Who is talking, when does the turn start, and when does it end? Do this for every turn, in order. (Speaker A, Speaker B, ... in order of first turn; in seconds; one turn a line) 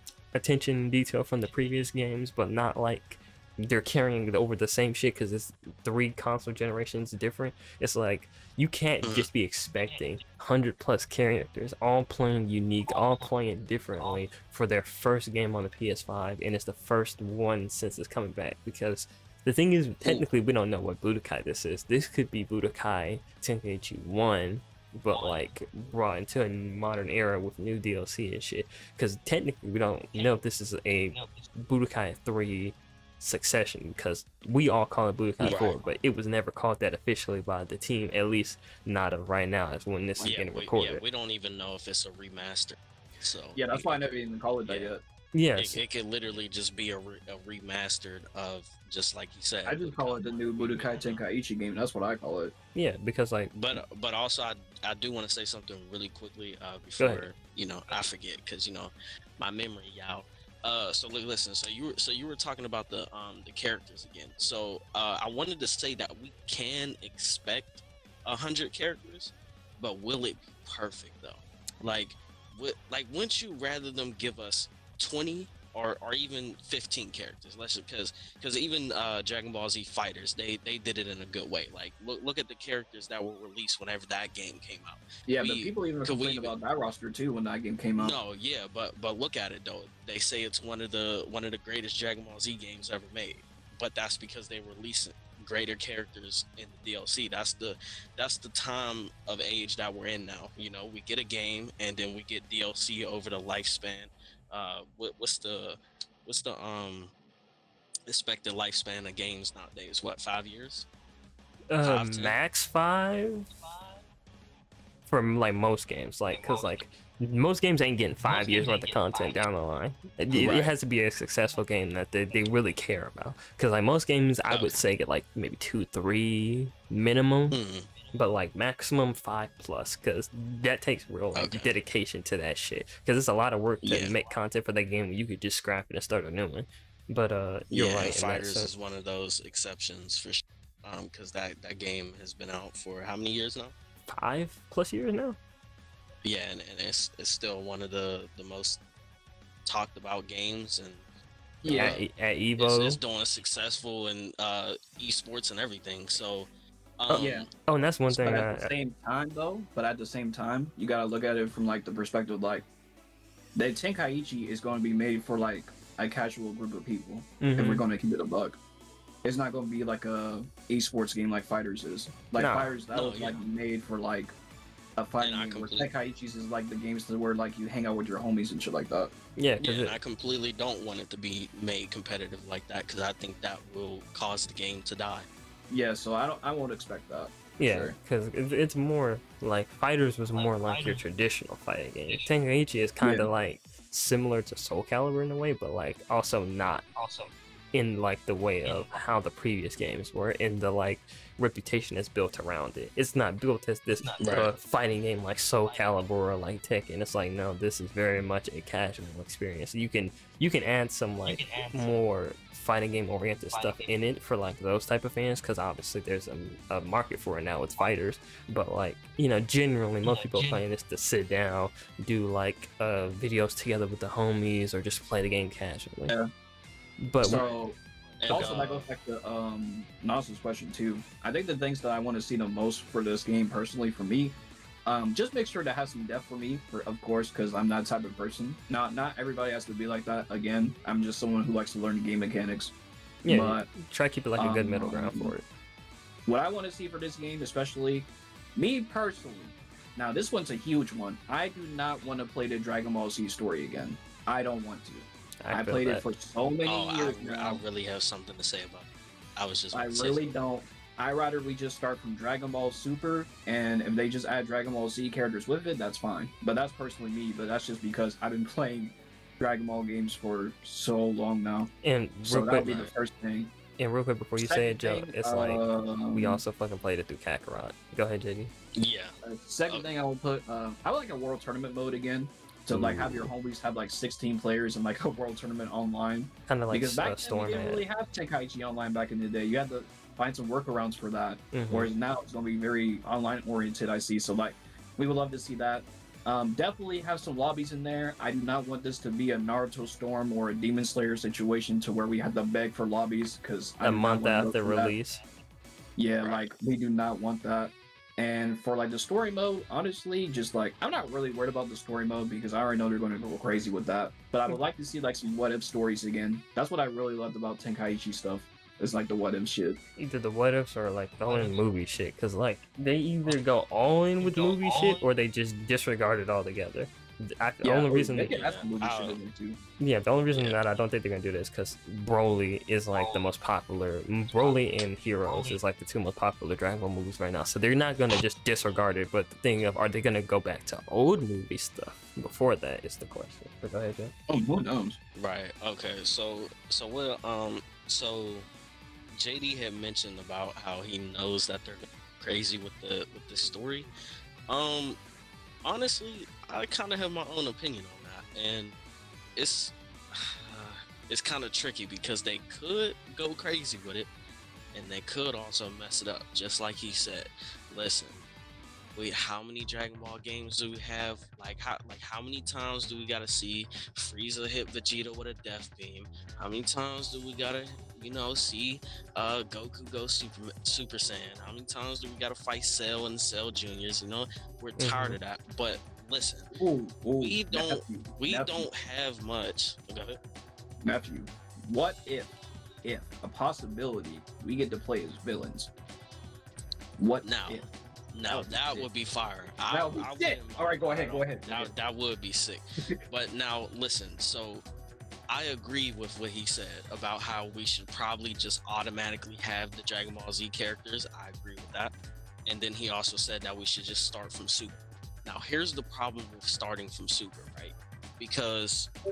Speaker A: 0.3-41.0
Speaker B: 9.0-9.3
Speaker B: 35.4-35.8
Speaker B: 40.2-44.1
Speaker C: 43.6-45.0
Speaker B: 44.7-44.9
Speaker A: 45.3-45.8
Speaker B: 45.6-51.2
Speaker C: 49.7-52.5
Speaker A: 52.8-53.8
Speaker B: 53.5-86.5
Speaker A: 57.0-57.3
Speaker C: 85.3-88.2
Speaker B: 88.0-107.1
Speaker B: 108.1-110.9
Speaker A: 111.7-113.5
Speaker B: 111.8-112.4
Speaker A: 115.1-127.6
Speaker B: 120.3-120.7
Speaker B: 124.5-124.8
Speaker B: 127.5-127.9
Speaker A: 128.1-138.7
Speaker B: 131.3-131.7
Speaker B: 133.8-134.2
Speaker B: 137.7-143.7
Speaker A: 144.1-145.4
Speaker B: 146.2-148.8
Speaker B: 149.7-151.1
Speaker C: 151.6-152.0
Speaker B: 151.6-152.0
Speaker A: 151.7-153.0
Speaker B: 152.6-156.5
Speaker B: 157.0-157.5
Speaker A: 157.1-158.7
Speaker C: 157.2-157.5
Speaker C: 158.1-162.7
Speaker C: 163.6-168.6
Speaker A: 167.4-167.9
Speaker C: 169.2-174.3
Speaker A: 172.4-172.7
Speaker B: 172.9-173.4
Speaker C: 175.0-179.1
Speaker B: 175.2-175.9
Speaker A: 179.4-180.0
Speaker B: 179.6-185.3
Speaker C: 185.7-187.9
Speaker A: 187.6-196.8
Speaker C: 193.0-193.3
Speaker A: 197.7-226.2
Speaker B: 204.2-204.5
Speaker A: 227.0-227.4
Speaker C: 227.2-227.8
Speaker B: 227.3-227.6
Speaker B: 228.2-228.9
Speaker A: 228.3-228.6
Speaker C: 228.3-234.3
Speaker C: 234.9-242.7
Speaker A: 243.2-245.4
Speaker C: 243.3-243.7
Speaker C: 244.4-245.3
Speaker C: 246.3-257.6
Speaker A: 255.4-256.0
Speaker B: 256.6-260.2
Speaker C: 259.7-271.7
Speaker A: 271.8-272.7
Speaker C: 272.2-273.5
Speaker B: 272.6-272.9
Speaker A: 273.8-278.5
Speaker C: 274.4-276.4
Speaker B: 278.8-279.2
Speaker C: 279.2-304.9
Speaker A: 282.7-283.3
Speaker A: 286.5-287.9
Speaker A: 291.5-291.9
Speaker A: 303.8-305.2
Speaker C: 306.0-319.8
Speaker B: 306.2-306.5
Speaker A: 320.0-328.4
Speaker C: 327.6-329.6
Speaker B: 328.3-329.2
Speaker A: 329.8-344.1
Speaker B: 330.3-330.6
Speaker C: 344.3-345.0
Speaker B: 345.2-348.5
Speaker B: 349.1-353.9
Speaker B: 354.5-355.0
Speaker B: 355.6-358.8
Speaker B: 359.4-364.1
Speaker B: 364.7-368.2
Speaker B: 368.9-386.5
Speaker A: 384.8-385.2
Speaker C: 386.5-388.7
Speaker B: 387.2-390.2
Speaker C: 390.8-392.3
Speaker C: 392.8-395.7
Speaker C: 397.0-397.7
Speaker B: 397.2-404.6
Speaker C: 398.2-398.9
Speaker C: 399.7-401.7
Speaker B: 405.3-411.9
Speaker B: 412.5-418.9